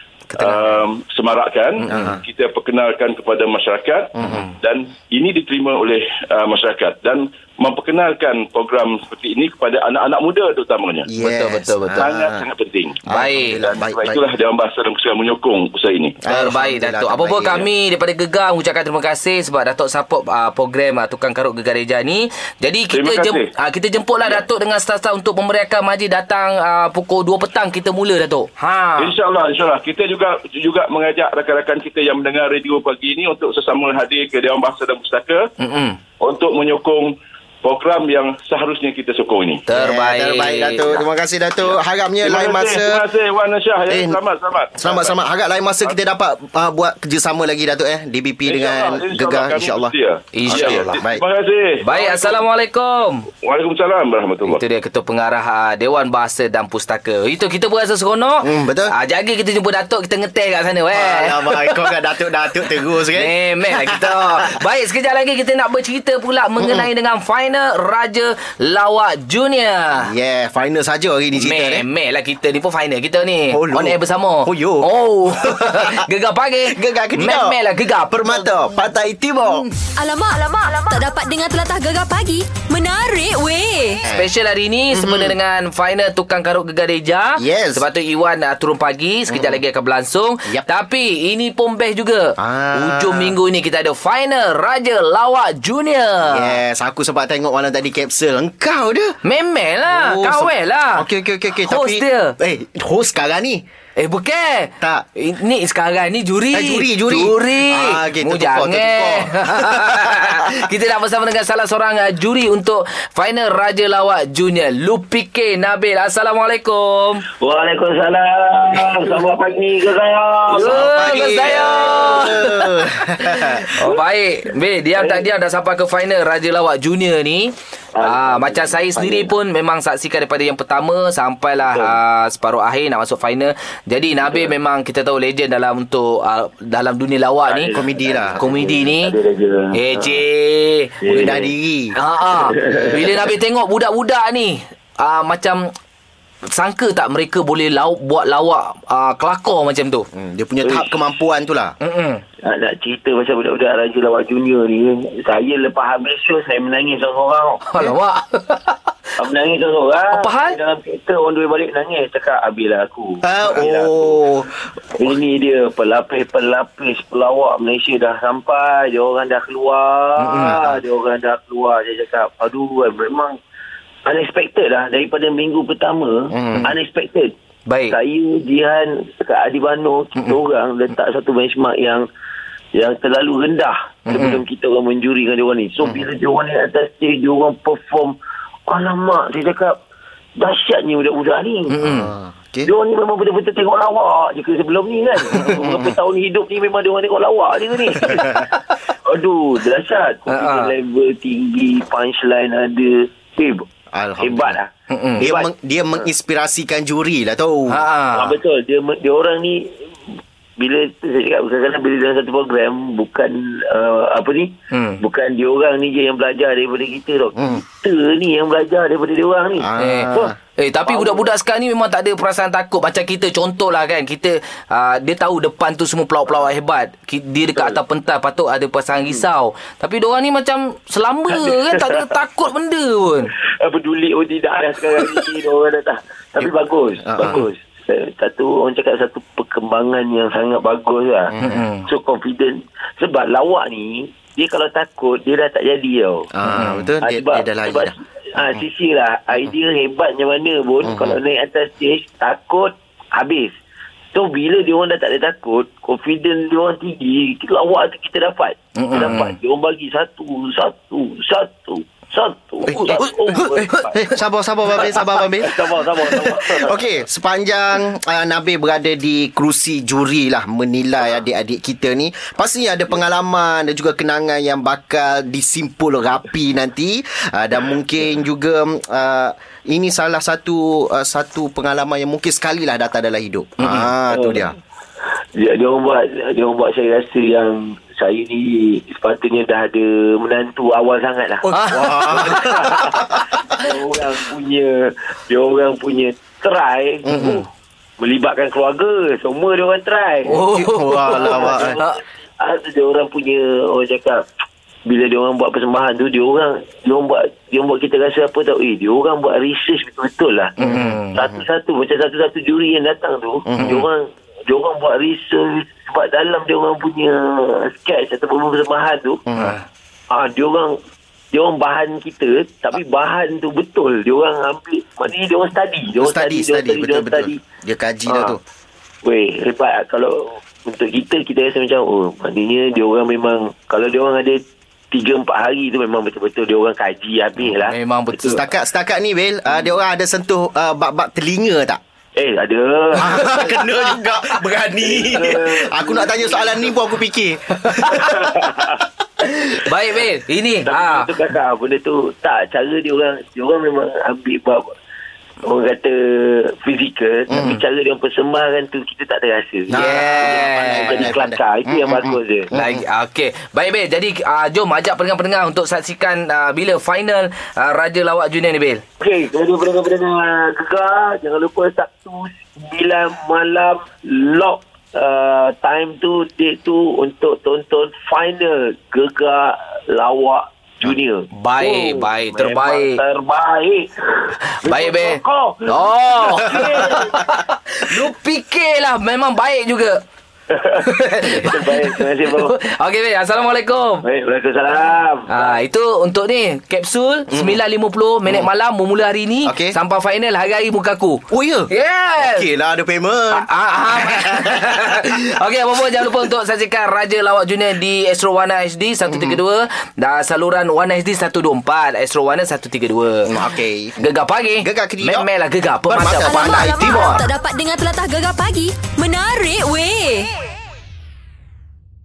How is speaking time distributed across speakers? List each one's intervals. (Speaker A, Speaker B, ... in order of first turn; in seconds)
Speaker A: 0.3-0.8, 1.9-2.2, 4.2-4.5, 11.1-12.4, 13.1-14.2, 16.2-17.7, 39.7-43.0, 43.9-44.2, 44.8-49.9, 50.5-51.2, 58.4-58.9, 60.9-64.6, 66.6-66.8, 70.0-71.8, 73.5-76.0, 76.7-77.6, 78.1-79.6, 84.9-85.3, 87.4-87.8, 89.3-89.6, 92.4-93.3, 96.3-99.2, 99.9-103.6, 106.5-110.3, 120.6-123.8, 137.7-138.4, 141.1-141.9, 150.1-151.8, 163.2-164.5, 176.3-176.7, 191.8-192.7, 195.4-195.9, 203.9-204.6, 205.2-207.8, 217.4-217.6, 219.6-220.3, 237.1-237.4, 246.3-247.9, 250.8-251.2, 262.7-284.5, 291.4-293.3, 297.1-297.4, 300.4-301.8, 310.6-311.4, 313.4-313.9, 319.3-319.6, 326.0-328.4, 338.3-341.8, 343.0-348.2, 357.3-357.6, 359.7-362.8, 397.3-397.6, 399.4-399.8, 401.3-405.0, 409.1-409.4, 413.3-414.0, 414.6-415.3, 415.9-417.2
Speaker B: 0.3-11.1, 12.0-13.0, 13.6-16.2, 22.9-23.5, 29.0-35.5, 36.2-39.6, 41.6-45.1, 48.5-52.4, 53.4-54.6
Speaker C: 1.9-2.1, 11.2-12.1, 13.1-13.6, 16.3-29.1, 35.6-36.0, 39.7-41.0, 50.3-51.0, 51.8-53.3, 54.4-61.9, 63.1-70.1, 71.4-78.5, 84.1-96.6, 99.2-101.0, 101.7-102.3, 104.0-117.3, 120.5-137.7, 138.4-139.2, 139.7-141.2, 141.9-145.7, 146.5-150.1, 151.8-152.2, 157.7-158.8, 160.1-160.6, 170.2-170.6, 177.7-178.0, 184.1-184.4, 191.7-192.1, 198.0-198.5, 200.3-200.7, 204.9-205.2, 207.7-208.4, 214.7-215.0, 219.8-233.3, 241.4-241.8, 246.5-246.9, 258.8-259.3, 283.6-283.9, 291.5-293.0, 297.1-297.4, 300.2-302.0, 310.6-311.1, 313.6-313.8, 319.4-319.6, 337.6-338.4, 347.7-348.1, 349.5-351.1, 359.7-361.0, 362.5-368.8, 381.3-383.0, 384.6-390.0, 390.8-394.0, 395.3-402.5, 403.3-413.3, 414.0-416.7
Speaker D: 79.8-84.0, 416.1-420.3
Speaker E: 117.4-122.2, 125.0-125.3, 127.9-129.3, 131.7-132.0, 137.5-140.2, 141.0-141.5, 142.3-143.3, 152.4-157.6, 159.2-164.2, 164.9-173.4, 174.0-177.3, 177.9-182.1, 182.7-189.8, 190.3-191.8, 192.6-198.5, 199.1-203.7, 204.2-204.7, 205.2-205.5, 208.1-220.3, 220.8-221.3, 231.4-232.1, 233.6-246.3, 247.0-253.6, 254.1-264.1, 264.7-266.8, 284.1-284.4, 285.4-297.5, 298.0-304.2, 304.9-310.6, 311.1-319.2, 320.1-320.8, 321.3-327.4, 328.1-328.4, 329.0-338.4, 342.1-343.9, 344.8-346.7, 348.0-348.8, 350.6-354.7, 355.4-362.5, 369.0-387.3, 390.5-392.5, 394.0-395.6